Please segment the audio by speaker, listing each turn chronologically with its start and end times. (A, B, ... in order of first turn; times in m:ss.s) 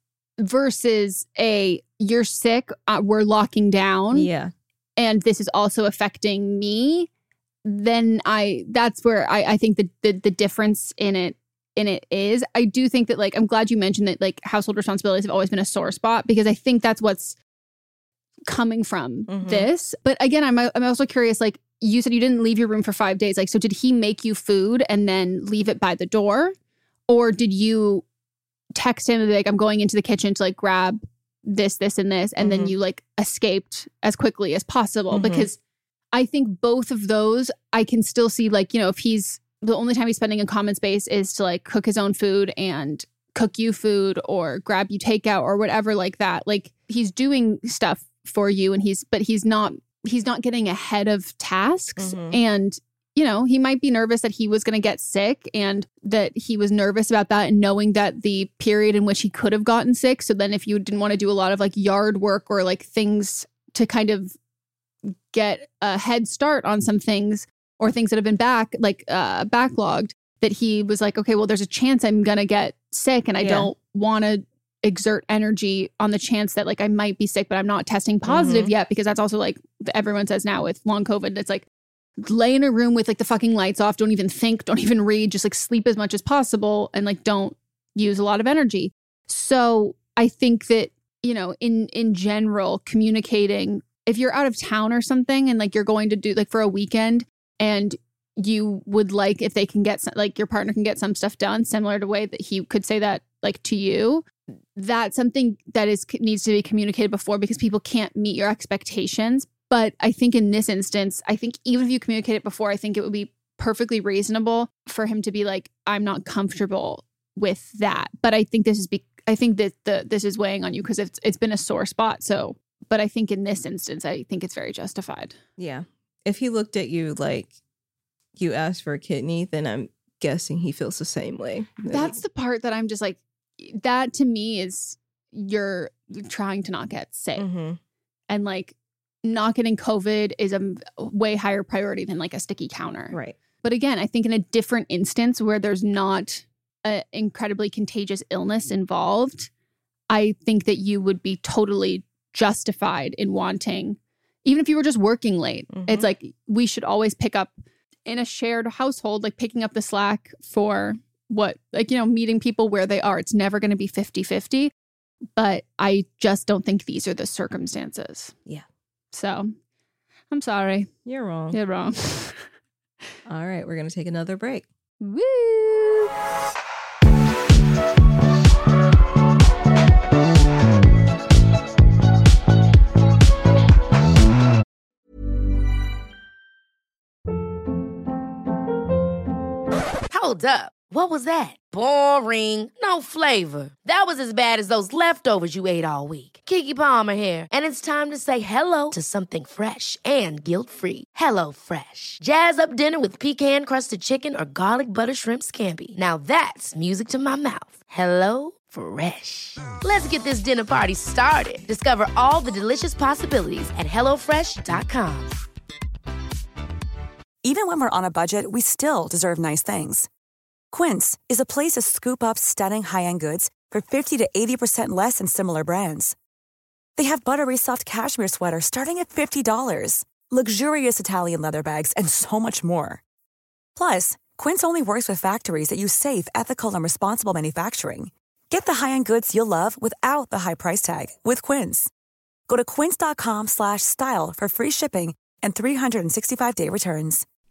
0:00.4-0:04.3 A
0:04.1-0:04.5 B
0:05.0-0:07.1 A
0:07.6-0:17.4 A
0:18.5-0:26.5 A
0:19.3-0:19.7 B
0:27.1-0:28.0 A
0:28.7-0:35.6 A
0:32.4-0:32.7 B
0:35.1-0:35.5 B
0:36.1-1:04.3 A
0:52.0-0:52.4 B
1:05.0-1:21.6 A
1:13.4-1:13.7 B
1:18.2-1:18.7 B
1:22.2-2:05.4 A
2:05.6-2:07.5 B
2:08.4-2:12.2 B
2:11.9-2:17.4 A
2:17.4-2:17.8 B
2:18.3-2:29.5 A
2:23.1-2:23.4 B
2:30.1-2:44.7 A
2:35.7-2:36.1 B
2:45.4-2:48.3 A
2:49.1-2:49.5 A
2:50.3-2:50.9 A
2:51.0-2:51.6 B
2:51.5-2:52.5 A
2:53.2-2:54.6 B
2:55.0-2:56.1 A
3:10.1-3:35.3 C
3:37.4-3:40.1 D
3:40.7-3:46.1 D
3:47.0-3:53.0 D
3:53.8-4:01.9 D
4:02.5-4:07.2 D